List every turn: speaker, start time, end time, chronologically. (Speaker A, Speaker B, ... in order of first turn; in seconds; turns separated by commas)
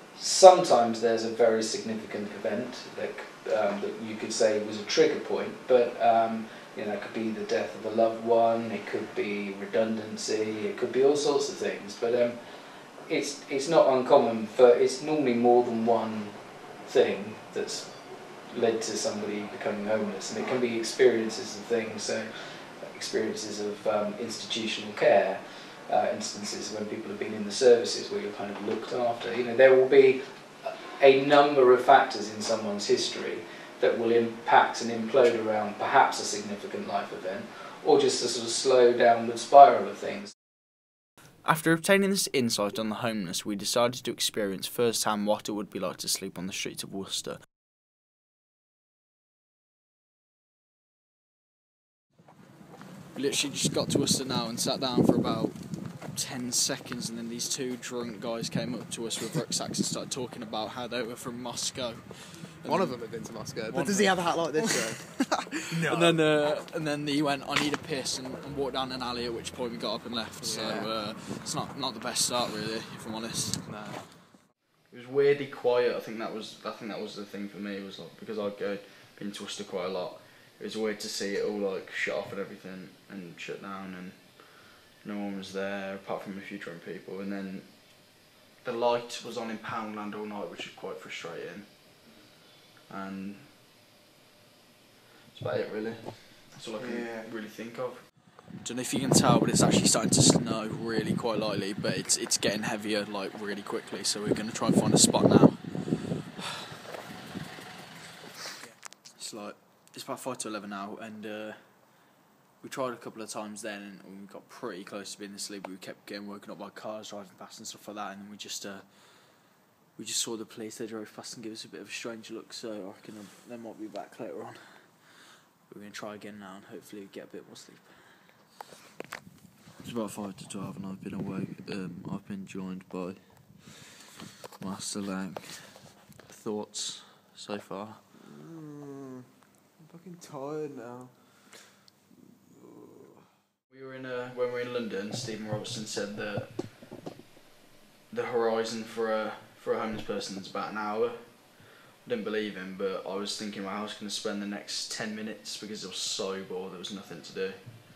Speaker A: 0.1-40.3, Speaker B: 41.5-47.4, Speaker B: 53.1-63.0, Speaker C: 62.7-66.2, Speaker B: 63.7-64.9, Speaker B: 65.7-73.7, Speaker C: 70.4-70.9, Speaker B: 74.9-91.7, Speaker B: 92.9-93.5, Speaker B: 95.3-106.4, Speaker C: 96.7-97.3, Speaker B: 109.1-128.3, Speaker B: 129.8-133.9, Speaker B: 134.6-138.0, Speaker C: 138.5-138.8, Speaker C: 139.9-140.9, Speaker B: 143.7-146.6, Speaker B: 148.1-157.7